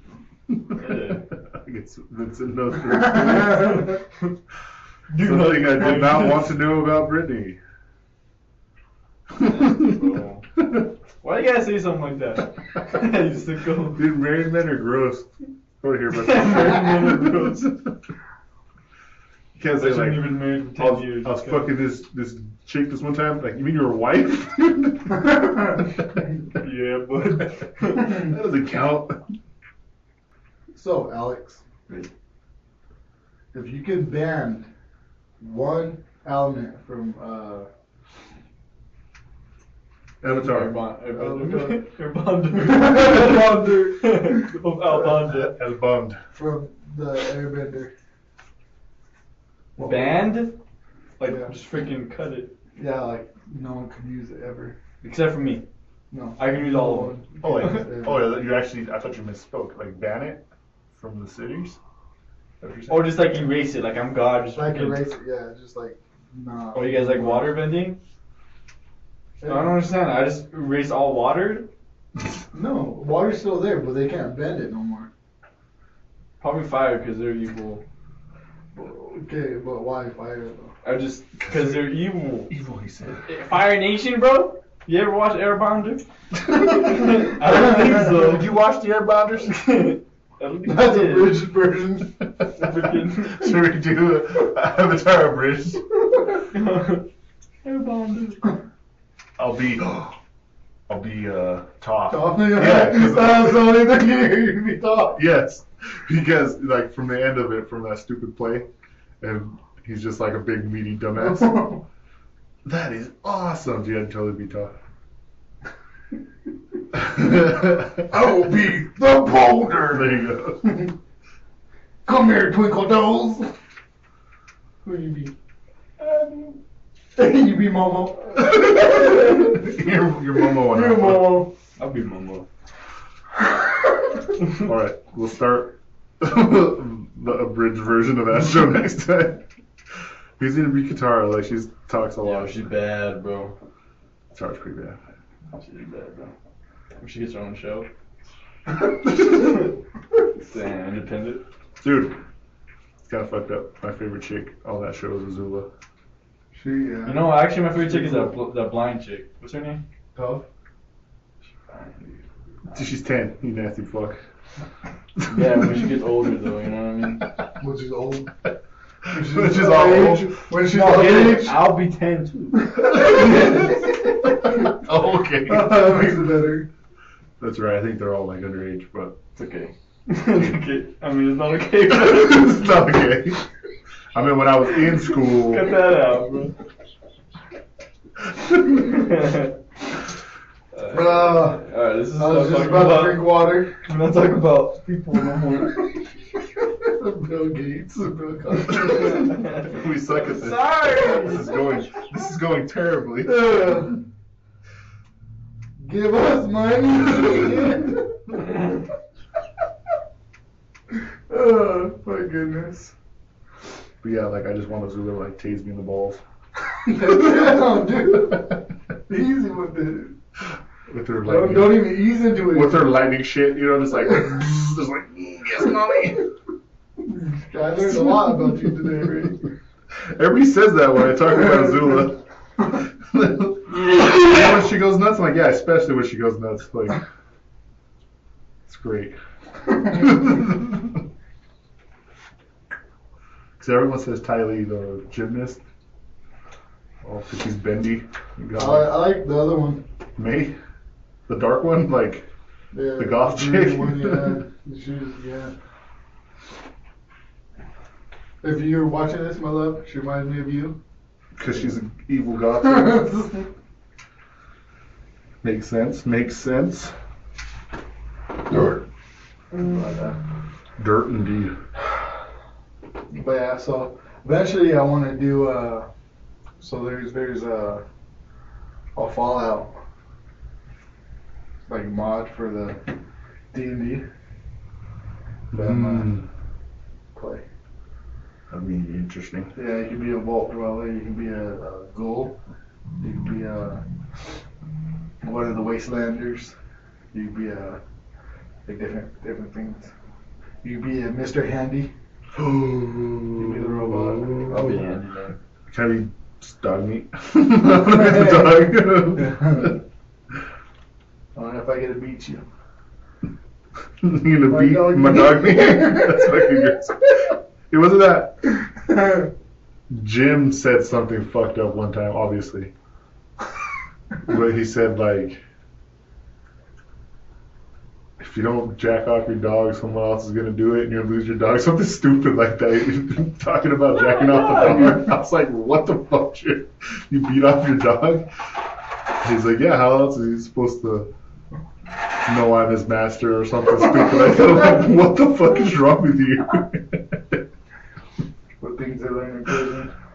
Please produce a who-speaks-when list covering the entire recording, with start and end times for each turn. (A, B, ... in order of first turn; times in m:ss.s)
0:00.5-0:03.9 A
0:00.7-0:01.2 B
0:02.9-0:04.0 C
0:05.1-0:06.6 B
0:05.2-0:07.6 A
0:09.3-0:10.9 A
0:09.7-0:10.4 B
0:11.2-0:14.0 B
0:13.9-0:17.9 A
0:16.1-0:17.7 B
0:19.6-0:25.8 A
0:19.6-0:21.7 B
0:25.3-0:25.8 C
0:26.6-0:28.2 B
0:27.8-0:29.2 A
0:30.7-0:31.6 C
0:33.5-0:34.7 C
0:35.4-0:37.7 C
0:40.2-0:40.8 A
0:40.4-0:45.5 B
0:41.1-0:41.8 C
0:42.5-0:45.0 C
0:44.9-0:46.2 A
0:46.3-0:47.9 C
0:49.8-0:50.2 C
0:49.8-0:50.6 B
0:51.2-0:52.5 B
0:51.2-0:51.5 C
0:52.8-0:54.8 C
0:55.0-0:55.6 B
0:56.1-0:58.3 C
0:56.4-0:57.2 B
0:57.4-1:01.8 A
1:02.6-1:03.4 A
1:02.9-1:05.0 B
1:04.5-1:07.6 C
1:06.7-1:08.0 B
1:09.4-1:09.8 C
1:09.4-1:11.7 B
1:12.5-1:15.1 C
1:16.4-1:17.8 B
1:18.7-1:20.7 C
1:20.8-1:22.5 B
1:21.4-1:23.3 A
1:23.2-1:28.5 B
1:26.5-1:29.6 A
1:29.4-1:31.5 B
1:30.6-1:32.1 C
1:32.6-1:33.6 B
1:32.6-1:36.2 A
1:36.5-1:37.0 B
1:37.6-1:38.6 B
1:39.4-1:40.1 A
1:40.9-1:43.8 A
1:42.1-1:45.2 C
1:45.2-1:48.7 A
1:49.2-1:51.8 A
1:51.4-1:51.7 C
1:52.6-1:54.7 A
1:56.9-1:58.4 A
1:57.2-1:59.8 C
1:59.5-2:00.6 A
2:00.6-2:00.9 C
2:02.0-2:03.5 C
2:04.8-2:05.3 C
2:07.2-2:09.6 C
2:08.4-2:11.5 A
2:10.5-2:11.5 C
2:11.8-2:12.4 B
2:14.4-2:19.4 A
2:20.4-2:22.7 A
2:22.2-2:23.5 B
2:24.3-2:25.0 A
2:25.5-2:26.3 B
2:27.0-2:27.9 B
2:28.9-2:29.7 B
2:30.4-2:31.4 B
2:31.8-2:32.2 A
2:33.0-2:35.7 A
2:36.5-2:38.3 C
2:37.0-2:39.8 B
2:40.1-2:40.4 C
2:41.7-2:42.2 B
2:42.7-2:44.2 A
2:45.2-2:47.3 B
2:47.6-2:48.3 C
2:49.1-2:51.7 C
2:49.1-2:50.4 A
2:50.5-2:53.7 B
2:52.7-2:53.6 C
2:53.0-2:53.9 A
2:54.4-2:56.2 A
2:55.4-2:56.7 C
2:57.4-2:59.2 A
2:59.4-3:02.6 B
3:01.9-3:03.4 A
3:04.1-3:05.8 A
3:04.9-3:06.5 B
3:08.8-3:09.5 B
3:10.7-3:15.9 B
3:10.9-3:13.8 C
3:16.6-3:19.4 C
3:18.7-3:19.7 B
3:19.0-3:24.0 A
3:20.2-3:21.8 B
3:23.2-3:24.0 C
3:25.8-3:28.8 C
3:31.3-3:32.9 C
3:34.0-3:36.2 A
3:36.8-3:38.6 C
3:37.0-3:37.6 A
3:39.1-3:40.2 C
3:40.9-3:46.3 A
3:41.2-3:42.9 C
3:47.1-3:49.5 C
3:47.8-3:49.1 A
3:50.0-3:57.0 A
3:58.7-3:59.2 A
3:59.7-4:01.0 A
4:03.6-4:05.6 A
4:07.0-4:09.1 A
4:08.6-4:09.8 C
4:10.2-4:10.6 A
4:11.3-4:12.3 A
4:12.7-4:15.5 C
4:13.0-4:14.4 A
4:18.4-4:20.8 C
4:21.4-4:23.1 A
4:22.7-4:23.5 C
4:25.4-4:26.9 A
4:28.5-4:28.8 A
4:29.5-4:30.2 C
4:30.8-4:31.6 A
4:33.1-4:35.9 C
4:36.6-4:37.8 C
4:39.0-4:39.8 C
4:41.7-4:42.8 C
4:43.5-4:44.0 C
4:45.5-4:46.2 A
4:45.5-4:46.2 C
4:47.1-4:47.4 C
4:48.5-4:49.5 A
4:49.5-4:52.4 C
4:53.0-4:53.8 C
4:55.2-4:56.5 C
4:57.1-4:57.8 C
4:58.6-4:59.9 C
5:00.6-5:01.9 C
5:02.3-5:04.9 A
5:03.4-5:04.8 C
5:04.4-5:05.3 B
5:05.7-5:09.8 A
5:07.8-5:09.8 C
5:11.4-5:12.4 C
5:14.0-5:18.5 A
5:14.5-5:16.6 C
5:18.9-5:19.3 C
5:19.9-5:22.7 A
5:24.2-5:25.4 A
5:28.2-5:38.3 A
5:39.2-5:41.1 A
5:42.2-5:47.4 A
5:48.6-5:49.9 C